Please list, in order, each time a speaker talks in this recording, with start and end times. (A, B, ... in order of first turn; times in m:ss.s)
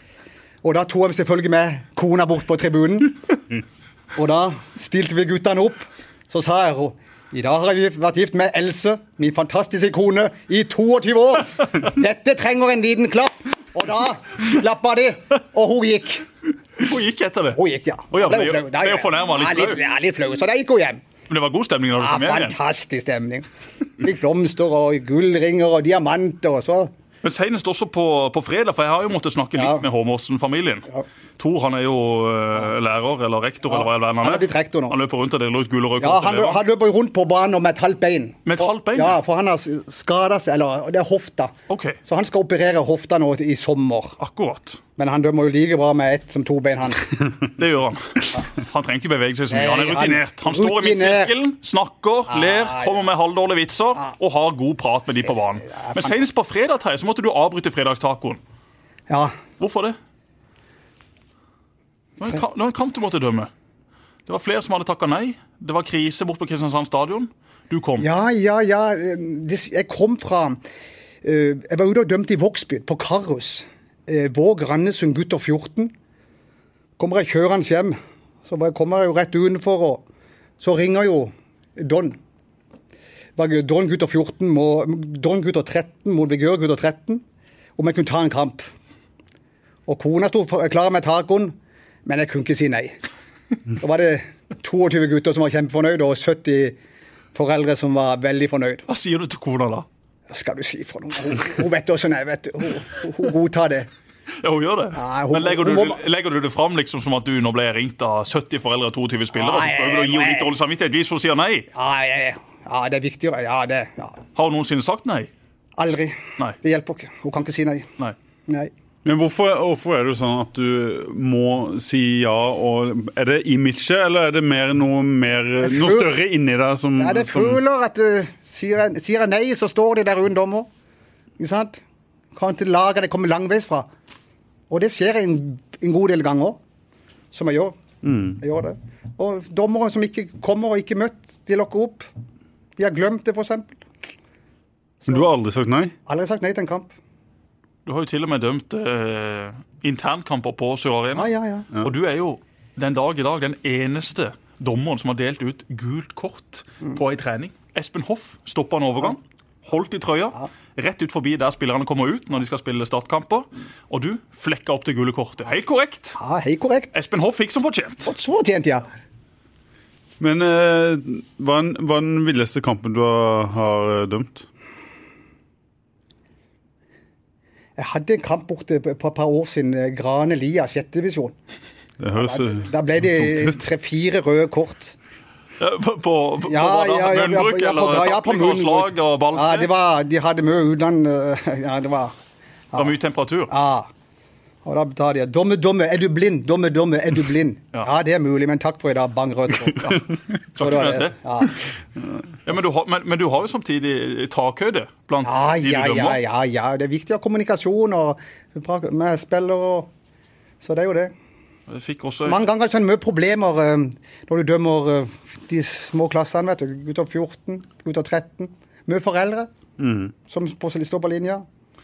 0:00.6-0:03.2 A
0:04.2-0:16.3 A
0:16.8-0:17.6 B
0:17.6-0:21.0 A
0:18.1-0:19.8 B
0:21.3-0:22.6 B
0:22.0-0:23.5 A
0:24.0-0:26.9 A
0:27.2-0:30.9 B
0:29.6-0:29.8 A
0:31.4-0:36.6 B
0:33.7-0:35.0 A
0:36.0-0:41.5 A
0:38.5-0:39.2 B
0:41.7-0:42.0 B
0:42.0-0:44.2 A
0:44.2-0:44.8 B
0:45.0-0:47.1 A
0:47.6-0:58.4 B
0:49.5-0:51.3 A
0:52.3-0:53.0 A
0:55.6-0:56.2 A
0:59.1-0:59.4 A
0:59.6-1:00.0 B
1:02.2-1:03.5 B
1:04.3-1:08.0 B
1:08.0-1:10.6 A
1:11.2-1:15.9 A
1:17.0-1:20.0 A
1:20.6-1:22.2 A
1:23.4-1:27.2 A
1:27.8-1:28.7 A
1:29.9-1:33.0 A
1:33.7-1:36.8 A
1:37.3-1:38.8 A
1:38.9-1:39.8 B
1:40.3-1:43.9 A
1:44.4-1:51.7 B
1:44.9-1:46.0 A
1:49.4-1:50.5 A
1:51.7-1:54.2 A
1:54.4-1:55.3 B
1:55.8-1:57.9 A
1:59.0-2:07.6 C
2:05.6-2:06.1 A
2:07.0-2:10.7 A
2:11.4-2:11.8 A
2:12.4-2:13.9 A
2:14.7-2:16.6 A
2:17.3-2:17.8 A
2:18.0-2:18.4 C
2:18.4-2:22.1 A
2:22.8-2:23.8 A
2:25.1-2:25.9 C
2:26.1-2:26.9 A
2:27.9-2:31.3 B
2:31.2-2:31.7 A
2:31.8-2:46.2 B
2:46.2-2:46.9 A
2:46.9-2:48.1 B
2:48.0-2:48.9 A
2:50.2-2:54.5 C
2:57.8-3:01.4 A
3:02.0-3:03.6 C
3:02.2-3:05.0 A
3:05.6-3:09.7 B
3:06.5-3:12.1 A
3:12.8-3:13.5 B
3:13.5-3:13.9 A
3:14.6-3:21.6 A
3:20.5-3:21.5 B
3:22.5-3:26.2 B
3:25.2-3:29.9 A
3:30.6-3:31.1 A
3:31.7-3:32.4 B
3:32.3-3:39.5 A
3:39.8-3:40.1 C
3:40.3-3:41.4 A